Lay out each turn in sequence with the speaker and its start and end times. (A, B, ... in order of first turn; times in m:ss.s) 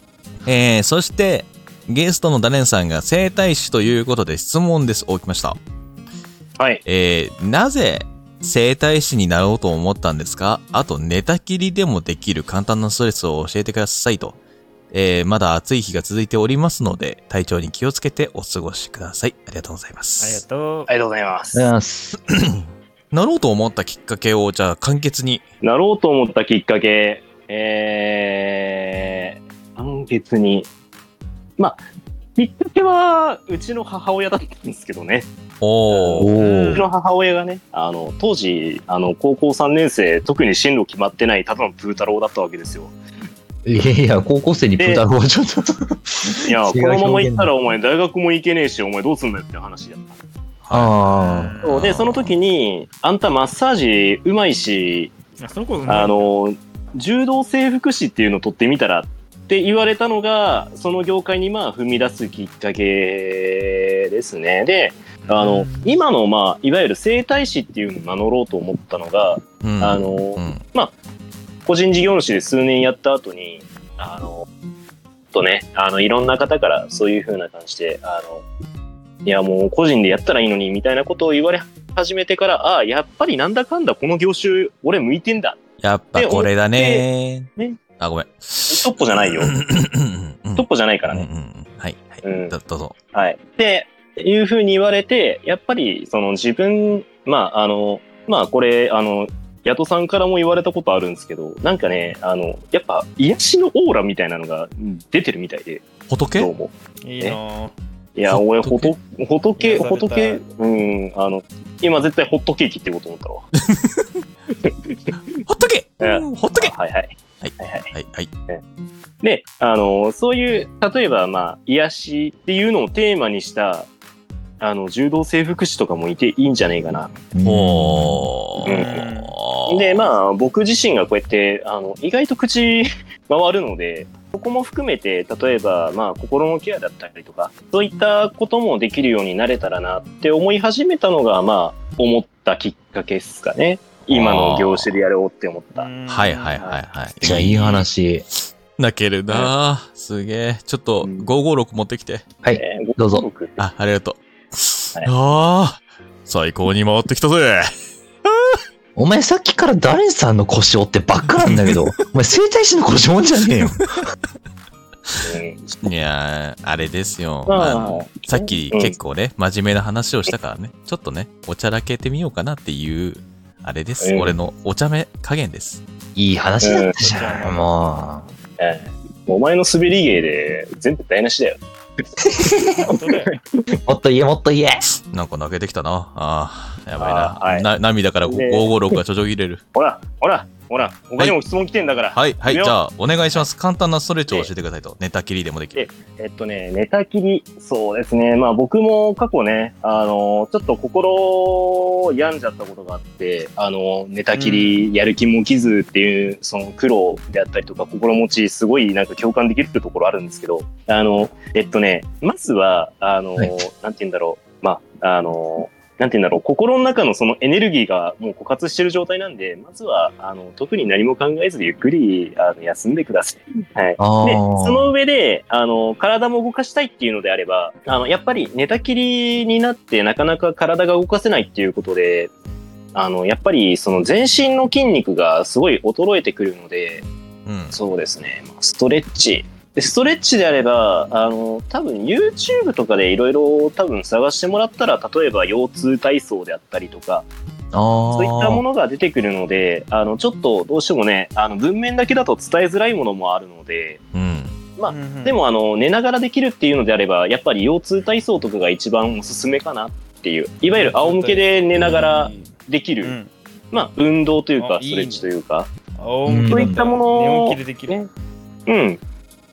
0:00.4-0:05.6 A
0:06.6-0:06.8 B
0:06.9-0:14.4 A
0:14.9-0:20.4 A
0:20.2-0:20.9 C
0:20.9-0:21.7 B
0:21.5-0:22.2 D
0:22.3-0:25.4 A
0:25.6-0:30.7 B
0:32.4-0:35.3 B
0:35.6-0:36.4 A
0:35.9-0:42.9 B
0:36.2-0:36.8 D
0:36.4-0:36.9 C
0:43.6-0:47.5 D
0:44.8-0:45.0 B
0:46.4-0:50.2 B
0:50.6-0:50.9 A
0:50.7-0:51.6 D
0:51.1-0:51.8 C
0:51.6-0:55.2 B
0:51.6-0:52.4 A
0:55.4-0:56.2 C
0:55.9-1:10.9 B
1:05.3-1:06.0 C
1:09.6-1:10.6 A
1:11.6-1:14.5 B
1:15.3-1:18.4 B
1:19.2-1:25.6 B
1:25.8-1:27.5 A
1:26.2-1:27.1 B
1:28.0-1:33.0 A
1:28.7-1:29.5 B
1:30.6-1:31.3 B
1:32.2-1:32.6 B
1:33.1-1:47.4 B
1:46.1-1:46.5 A
1:47.0-1:47.7 C
1:48.2-1:53.5 B
1:48.3-1:48.9 A
1:49.6-1:50.4 C
1:53.7-1:54.1 A
1:54.6-1:55.2 B
1:55.5-1:56.7 A
1:56.0-1:57.9 B
1:57.4-1:58.3 A
1:59.2-2:03.9 B
2:04.6-2:07.1 B
2:07.3-2:08.3 D
2:07.4-2:10.1 A
2:08.6-2:09.3 C
2:08.6-2:09.0 B
2:09.7-2:25.9 B
2:24.1-2:25.0 A
2:25.8-2:26.6 C
2:26.1-2:27.9 A
2:27.2-2:28.2 D
2:28.8-2:32.2 A
2:31.0-2:31.3 B
2:32.4-2:33.3 D
2:32.6-2:33.6 B
2:33.6-2:37.7 A
2:38.2-2:38.6 A
2:39.0-2:43.8 D
2:41.4-2:41.8 A
2:43.4-2:44.0 A
2:45.2-2:45.9 B
2:45.8-2:55.8 A
2:47.5-2:49.0 B
2:54.0-2:54.4 B
2:56.2-2:58.3 D
2:56.6-2:57.0 B
2:57.0-2:58.0 C
2:58.6-3:01.6 B
3:02.4-3:02.9 D
3:02.9-3:03.3 C
3:03.0-3:03.3 B
3:03.7-3:04.9 D
3:05.1-3:09.6 A
3:07.0-3:07.7 B
3:08.2-3:08.7 B
3:09.7-3:12.8 B
3:12.1-3:15.9 A
3:15.8-3:52.3 B
3:24.3-3:24.8 C
3:44.0-3:44.9 D
3:52.9-3:57.1 B
3:57.5-3:57.8 A
3:57.7-4:07.3 B
4:07.7-4:08.6 D
4:08.1-4:14.0 B
4:14.1-4:14.6 A
4:14.8-4:23.2 B
4:14.9-4:15.4 C
4:20.7-4:22.5 C
4:21.8-4:22.1 A
4:23.0-4:23.3 C
4:23.7-4:25.7 B
4:24.6-4:25.3 C
4:26.0-4:28.0 C
4:26.2-4:26.8 D
4:26.5-4:28.1 B
4:28.7-4:29.0 B